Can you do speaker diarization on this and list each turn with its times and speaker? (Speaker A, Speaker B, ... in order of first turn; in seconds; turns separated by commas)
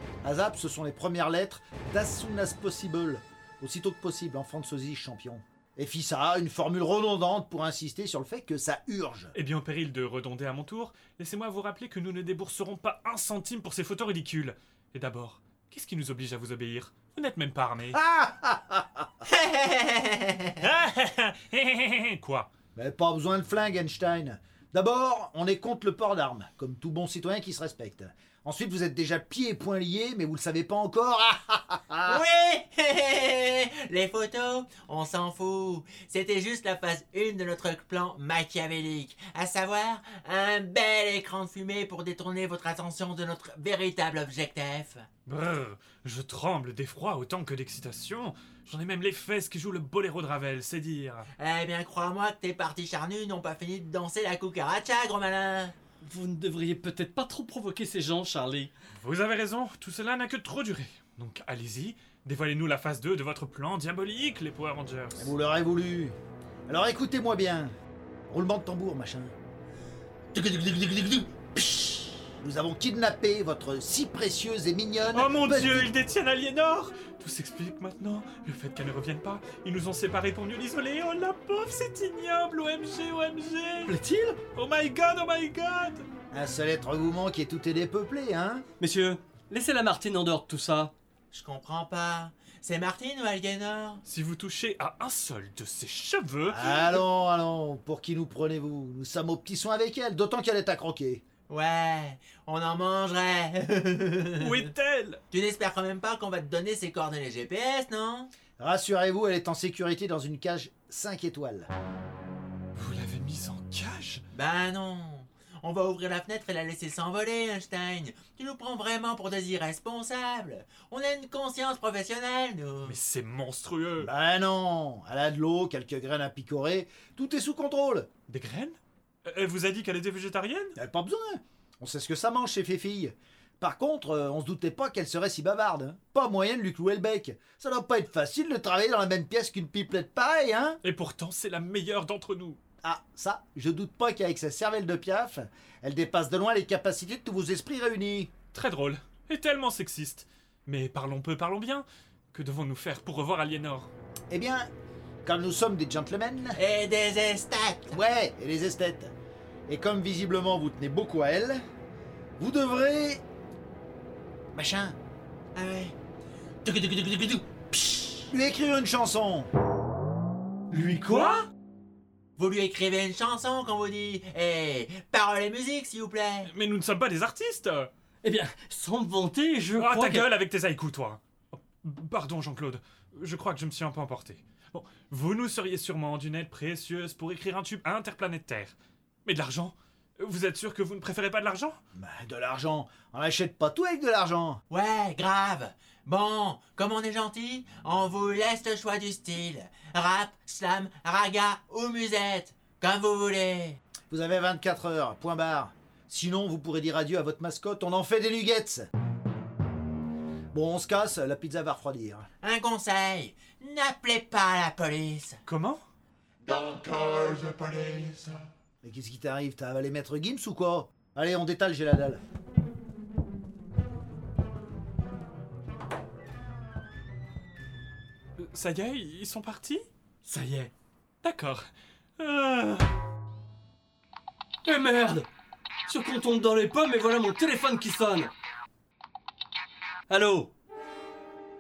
Speaker A: 0.2-9.3, Speaker B: 9.3-18.0, Speaker A: 17.9-19.1, Speaker C: 19.2-20.6, Speaker B: 20.6-22.5, Speaker A: 22.7-32.2, Speaker C: 32.0-45.1, Speaker B: 45.2-51.3, Speaker C: 51.4-55.7, Speaker D: 56.0-58.7, Speaker B: 59.0-65.3, Speaker A: 65.2-66.2, Speaker A: 66.7-67.7, Speaker A: 68.3-69.3, Speaker A: 70.3-75.9, Speaker B: 75.1-84.0, Speaker D: 83.8-84.4, Speaker B: 84.5-86.0, Speaker A: 86.3-88.6, Speaker D: 88.8-90.9, Speaker C: 91.3-94.0, Speaker B: 94.0-97.0, Speaker A: 96.5-101.2, Speaker C: 101.5-104.7, Speaker B: 104.4-105.2, Speaker C: 105.3-108.3, Speaker A: 108.6-111.7, Speaker B: 112.7-114.2, Speaker C: 114.3-123.0, Speaker B: 122.8-124.1, Speaker A: 124.0-128.1, Speaker B: 128.3-130.8, Speaker A: 130.8-140.8, Speaker B: 140.8-142.6, Speaker A: 142.8-148.3, Speaker B: 148.5-153.9, Speaker A: 154.3-154.7, Speaker A: 155.2-156.6, Speaker C: 156.5-158.0, Speaker A: 157.9-159.1, Speaker A: 159.7-161.6, Speaker A: 162.4-163.2, Speaker A: 164.5-165.0, Speaker C: 165.5-165.9, Speaker C: 166.6-168.3, Speaker A: 168.3-169.5, Speaker D: 170.7-171.4, Speaker B: 171.1-171.4, Speaker C: 172.4-176.5, Speaker B: 176.4-177.9, Speaker D: 178.2-180.3, Speaker B: 179.8-191.8, Speaker A: 191.9-194.6, Speaker C: 194.7-203.8, Speaker A: 204.1-208.9, Speaker A: 210.5-212.3, Speaker C: 212.4-215.4, Speaker B: 215.4-215.8, Speaker B: 216.4-218.4, Speaker A: 218.8-222.2, Speaker B: 228.4-229.8, Speaker D: 230.2-230.7, Speaker B: 231.2-231.6, Speaker B: 232.2-232.9, Speaker D: 234.6-235.3, Speaker D: 235.9-238.3, Speaker D: 240.1-240.5